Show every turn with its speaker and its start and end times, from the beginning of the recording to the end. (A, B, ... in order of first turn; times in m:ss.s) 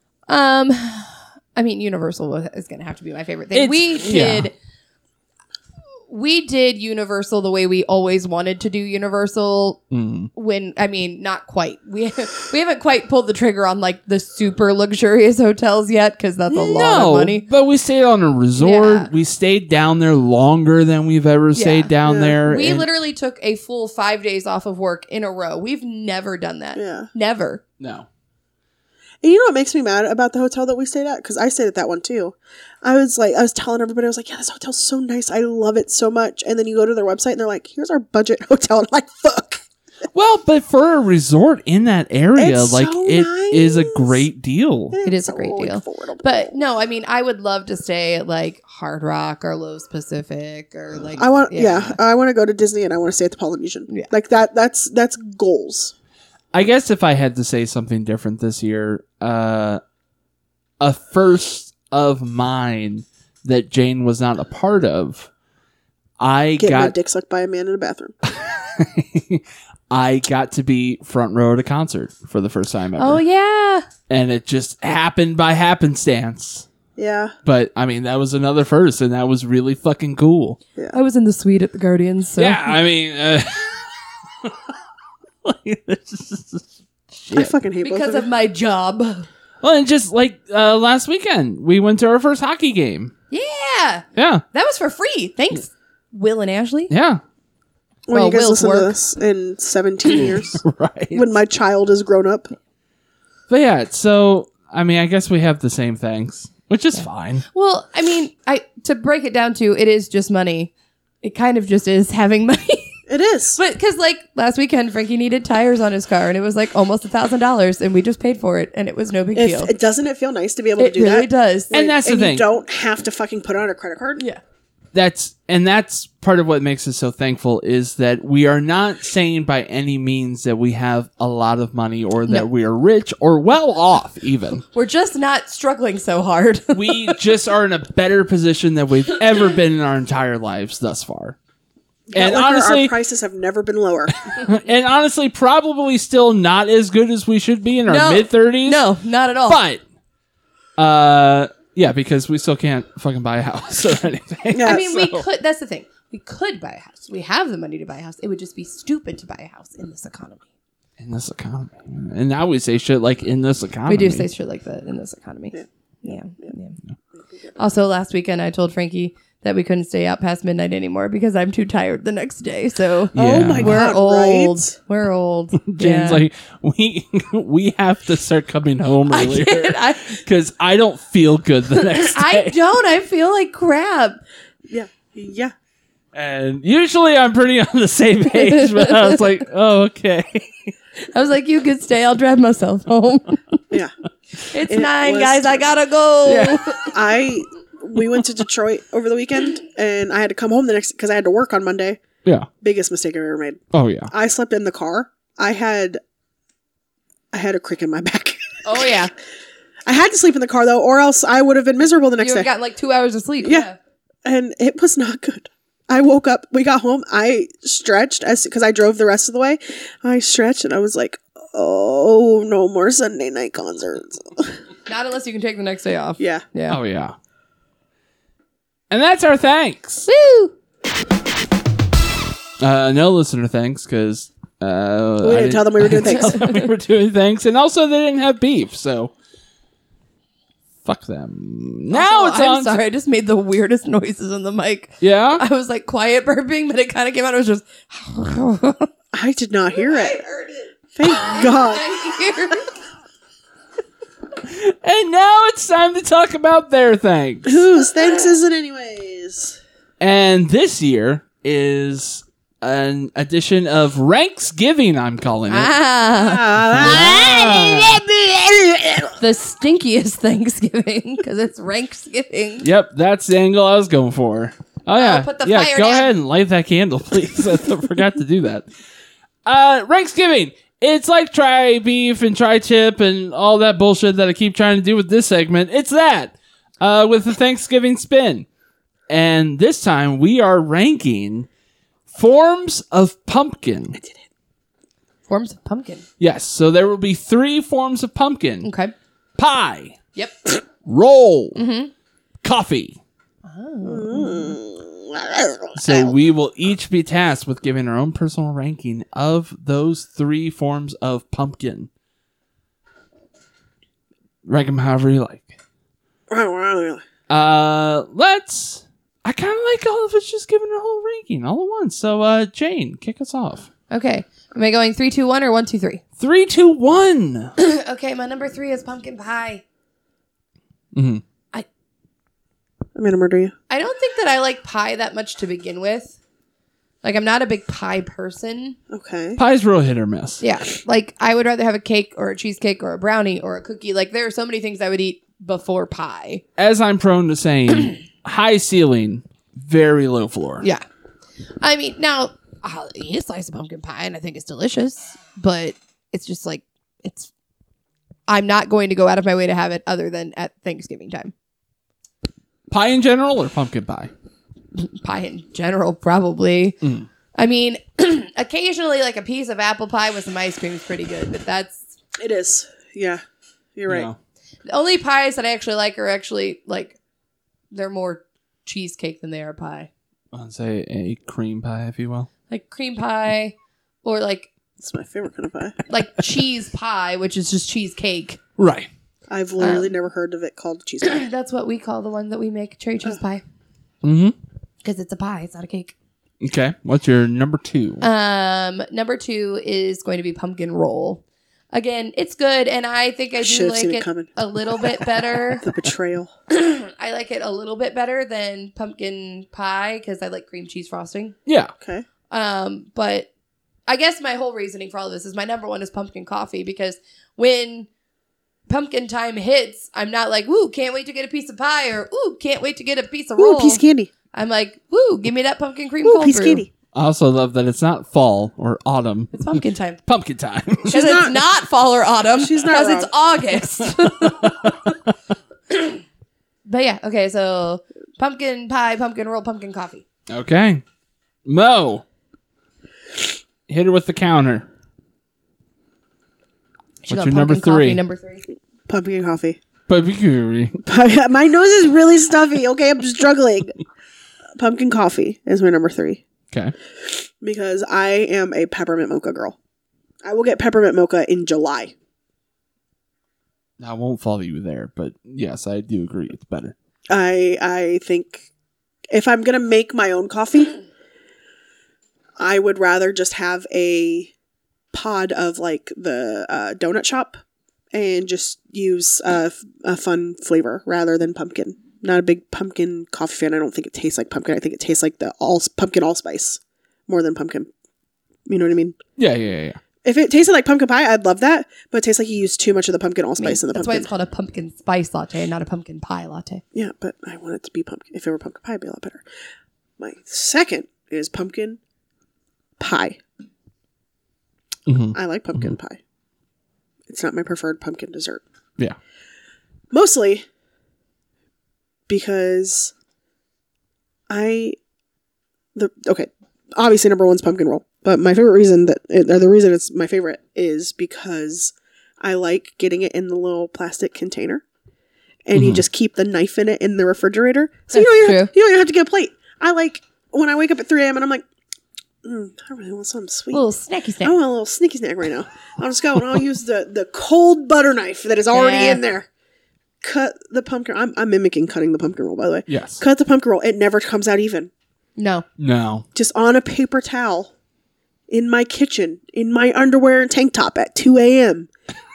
0:00.3-0:04.5 A
0:03.5-0:04.5 B
0:06.1-0:09.8 A
0:09.9-0:10.3 B
0:10.3-0:17.5 A
0:16.5-0:22.9 B
0:18.6-0:19.1 A
0:21.6-0:27.6 A
0:22.0-0:22.4 C
0:26.8-0:27.1 C
0:27.8-0:28.1 B
0:29.2-0:39.6 C
0:40.1-0:45.0 B
0:42.4-0:44.2 C
0:44.9-0:46.5 C
0:45.0-0:52.0 A
0:51.2-0:55.9 C
0:56.5-0:59.8 B
1:00.8-1:05.3 B
1:06.2-1:07.0 B
1:06.6-1:08.1 C
1:08.2-1:13.2 B
1:13.0-1:13.9 A
1:14.1-1:16.7 B
1:17.0-1:17.3 C
1:17.4-1:20.6 B
1:20.9-1:22.8 A
1:22.4-1:24.7 B
1:25.4-1:27.6 B
1:27.3-1:28.3 C
1:27.8-1:29.3 A
1:29.6-1:33.1 B
1:33.3-1:36.9 A
1:34.2-1:34.4 B
1:36.9-1:37.2 B
1:38.1-1:40.6 C
1:38.1-1:39.0 A
1:40.1-1:41.2 B
1:41.1-1:42.5 C
1:43.5-1:47.4 B
1:47.5-1:53.0 A
1:53.1-1:53.6 C
1:53.6-1:59.7 A
1:59.4-2:04.2 C
2:00.8-2:01.7 A
2:01.7-2:02.5 B
2:04.9-2:14.6 B
2:14.7-2:17.2 A
2:16.7-2:21.4 B
2:22.1-2:24.2 C
2:22.1-2:22.9 B
2:24.2-2:28.8 B
2:27.9-2:29.6 A
2:29.5-2:29.8 B
2:30.8-2:35.2 B
2:34.5-2:34.9 C
2:34.6-2:40.4 A
2:41.0-2:44.3 B
2:43.9-2:46.8 A
2:45.5-2:46.5 C
2:47.6-2:56.2 A
2:53.1-2:53.8 B
2:53.2-2:54.7 C
2:55.6-3:02.6 B
2:59.1-3:00.2 A
3:01.8-3:04.2 A
3:04.7-3:05.5 C
3:06.1-3:10.7 B
3:08.4-3:09.2 A
3:11.1-3:13.6 A
3:14.5-3:16.9 A
3:14.7-3:15.6 C
3:16.2-3:16.6 B
3:16.9-3:22.0 C
3:22.6-3:26.0 C
3:23.7-3:24.1 B
3:27.3-3:28.9 C
3:28.6-3:29.1 A
3:29.9-3:32.5 C
3:32.2-3:33.8 A
3:33.4-3:33.7 C
3:34.2-3:44.6 C
3:44.9-3:46.8 A
3:46.2-3:46.4 C
3:46.7-3:47.2 B
3:48.9-3:50.1 B
3:50.1-3:50.5 A
3:52.6-3:59.1 B
3:55.2-3:56.4 C
3:56.4-3:56.6 A
4:00.8-4:02.8 B
4:01.9-4:08.9 A
4:05.0-4:05.4 B
4:09.1-4:10.2 C
4:09.8-4:12.7 A
4:11.0-4:11.9 C
4:14.4-4:17.6 B
4:17.5-4:19.6 C
4:20.0-4:25.7 B
4:25.5-4:27.7 A
4:26.2-4:29.1 C
4:26.6-4:28.0 B
4:29.2-4:32.7 A
4:32.6-4:38.7 B
4:35.0-4:36.1 A
4:39.4-4:48.5 B
4:49.1-4:51.5 B
4:52.1-4:54.0 B
4:54.0-4:54.2 C
4:55.3-4:56.0 A
4:56.2-4:58.7 B
4:58.6-4:58.9 A
4:59.4-5:00.0 B
5:00.2-5:00.5 A
5:00.8-5:01.6 B
5:01.6-5:01.9 A
5:02.4-5:03.0 B
5:03.4-5:04.6 A
5:03.8-5:06.1 C
5:05.8-5:11.9 B
5:14.4-5:15.6 B
5:16.3-5:17.0 C
5:17.3-5:23.7 B
5:23.9-5:26.0 A
5:26.2-5:27.5 B
5:27.6-5:29.6 A
5:30.9-5:31.2 B
5:33.0-5:33.5 C
5:33.7-5:36.2 A
5:37.0-5:38.8 A
5:38.9-5:39.4 C
5:39.4-5:40.4 B
5:40.4-5:46.4 A
5:46.6-5:50.7 B
5:51.6-5:57.3 A
5:58.3-6:01.3 A
6:02.7-6:04.1 B
6:04.8-6:06.8 A
6:06.8-6:07.1 B
6:07.4-6:11.8 A
6:12.2-6:13.2 C
6:13.8-6:14.1 C
6:13.9-6:14.2 B
6:14.7-6:17.0 A
6:17.7-6:19.9 A
6:20.3-6:22.3 B
6:22.5-6:24.5 A
6:24.8-6:25.8 C
6:25.9-6:28.4 A
6:28.6-6:28.9 B
6:29.3-6:31.3 C
6:29.6-6:29.9 A
6:31.0-6:33.4 A
6:34.0-6:34.4 B
6:34.8-6:35.9 A
6:36.4-6:38.0 B
6:38.0-6:45.7 A
6:43.4-6:44.3 C
6:45.6-6:46.3 C
6:46.5-6:51.4 A
6:51.5-6:51.7 B
6:52.3-6:53.3 A
6:53.9-6:57.9 A
6:58.7-7:03.8 A
7:03.4-7:04.1 C
7:04.3-7:06.6 A
7:06.0-7:06.7 C
7:06.9-7:11.0 B
7:09.3-7:10.0 A
7:10.9-7:11.4 C
7:10.9-7:14.7 A
7:12.4-7:13.1 C
7:15.7-7:16.0 A
7:16.7-7:20.0 A
7:20.3-7:20.8 B
7:21.4-7:22.0 B
7:23.7-7:24.7 B
7:27.0-7:28.4 A
7:27.1-7:28.0 B
7:28.9-7:29.6 C
7:29.9-7:30.8 B
7:30.8-7:33.8 C
7:34.6-7:36.2 C
7:37.4-7:39.6 C
7:40.2-7:41.9 C
7:43.8-7:46.8 B
7:47.1-7:48.5 C
7:49.1-7:50.8 C
7:52.4-7:54.3 C
7:54.9-7:57.4 C
7:57.9-8:07.7 C
8:08.5-8:09.0 C
8:09.2-8:09.8 B
8:10.0-8:14.1 C
8:13.4-8:16.6 A
8:16.7-8:19.2 C
8:20.0-8:21.8 C
8:22.8-8:23.2 C
8:24.9-8:25.8 B
8:25.1-8:26.0 C
8:27.1-8:28.4 C
8:29.9-8:30.4 C
8:32.1-8:32.9 C
8:34.3-8:34.8 C
8:35.8-8:44.6 C
8:45.5-8:51.4 C
8:45.5-8:45.8 B
8:47.9-8:48.5 A
8:52.2-8:53.6 C
8:53.5-8:54.4 A
8:54.2-8:59.3 C
8:58.5-8:59.0 A
9:00.0-9:04.7 C
9:02.7-9:03.0 B
9:05.2-9:05.4 A
9:05.6-9:06.1 B
9:06.2-9:07.5 C
9:08.3-9:11.7 C